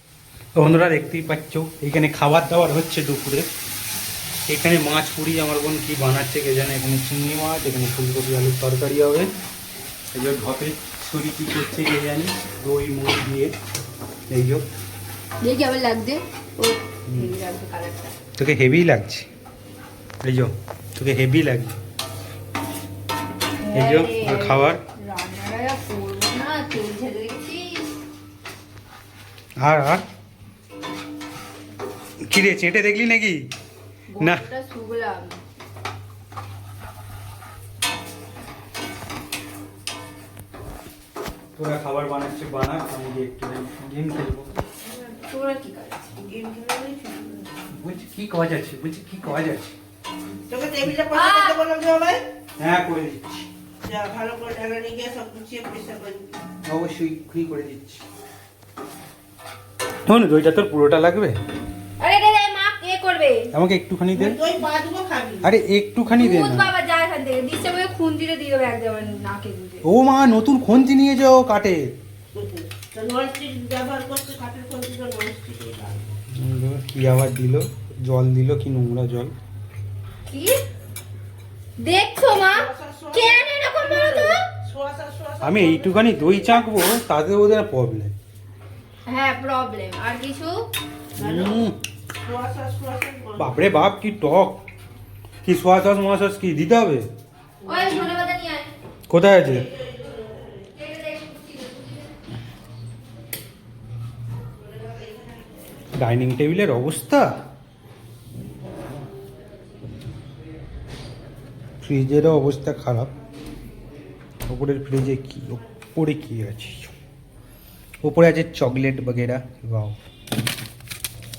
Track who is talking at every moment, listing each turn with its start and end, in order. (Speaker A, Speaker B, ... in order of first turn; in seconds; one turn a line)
Speaker A: 0.6-3.5
Speaker A: 4.5-9.3
Speaker A: 10.1-13.5
Speaker A: 14.3-14.7
Speaker B: 15.4-18.1
Speaker A: 17.1-17.3
Speaker A: 18.4-19.3
Speaker A: 20.2-21.8
Speaker B: 23.6-27.9
Speaker A: 23.7-24.8
Speaker A: 29.6-30.0
Speaker A: 32.2-33.4
Speaker B: 34.1-35.4
Speaker A: 34.2-34.5
Speaker A: 41.6-44.5
Speaker B: 44.8-46.2
Speaker C: 46.2-47.6
Speaker A: 47.7-49.7
Speaker C: 50.5-52.2
Speaker B: 51.1-51.6
Speaker A: 52.6-53.5
Speaker C: 53.8-56.3
Speaker A: 56.6-58.0
Speaker A: 60.1-61.4
Speaker B: 62.0-63.5
Speaker A: 63.5-64.4
Speaker C: 64.2-65.5
Speaker A: 65.4-66.7
Speaker B: 66.2-69.8
Speaker A: 69.8-71.9
Speaker C: 72.3-76.1
Speaker A: 76.3-79.3
Speaker B: 80.3-80.6
Speaker B: 81.8-84.4
Speaker C: 82.4-86.3
Speaker A: 85.4-88.2
Speaker B: 89.1-90.7
Speaker C: 91.2-91.7
Speaker A: 91.2-91.8
Speaker C: 92.2-93.6
Speaker A: 93.4-94.6
Speaker A: 95.5-97.0
Speaker B: 97.7-98.7
Speaker A: 99.1-99.7
Speaker C: 99.5-100.7
Speaker B: 100.8-102.1
Speaker C: 104.7-105.6
Speaker A: 106.0-107.4
Speaker A: 111.8-113.1
Speaker A: 114.5-116.9
Speaker A: 118.0-120.0